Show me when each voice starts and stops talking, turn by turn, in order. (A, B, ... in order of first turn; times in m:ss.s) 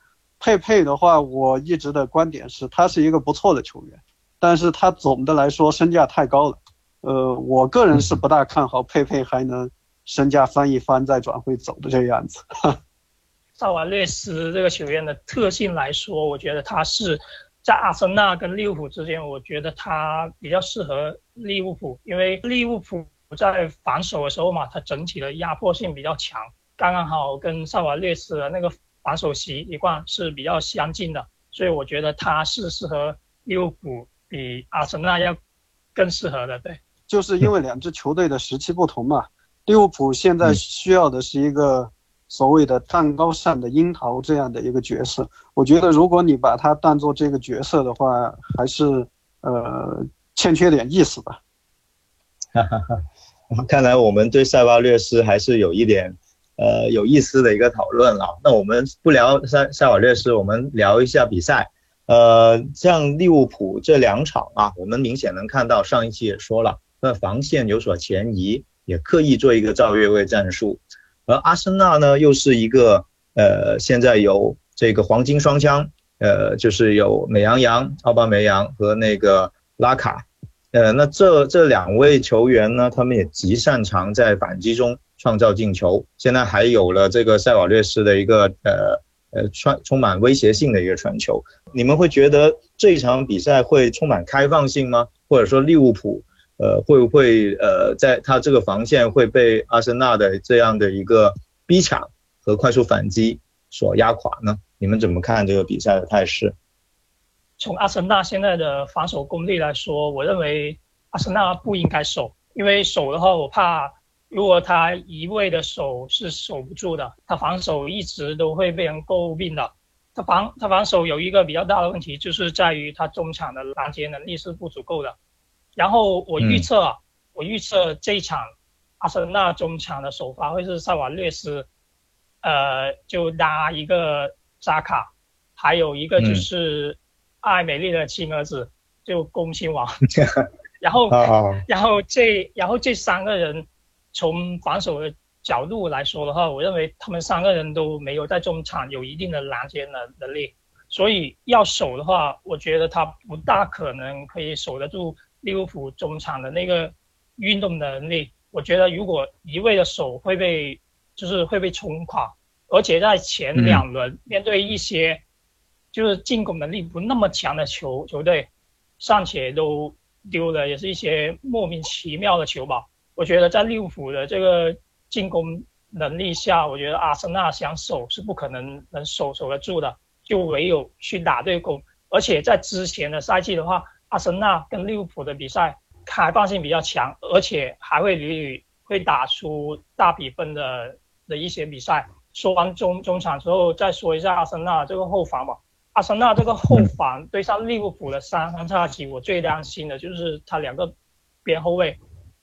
0:00.4-0:12.8 A
0:07.9-0:08.2 B
0:13.6-0:35.4 C
0:36.0-0:36.8 C
0:37.1-0:51.4 A
0:52.5-0:53.0 B
0:53.6-1:46.5 B
1:47.6-2:05.2 C
2:05.8-2:08.5 C
2:06.4-2:06.7 B
2:09.0-2:11.7 C
2:12.4-2:20.0 C
2:16.2-2:16.5 B
2:20.8-2:45.2 C
2:21.1-2:21.6 B
2:43.6-2:43.8 B
2:45.9-2:48.5 C
2:49.0-3:20.9 C
3:21.4-3:22.0 C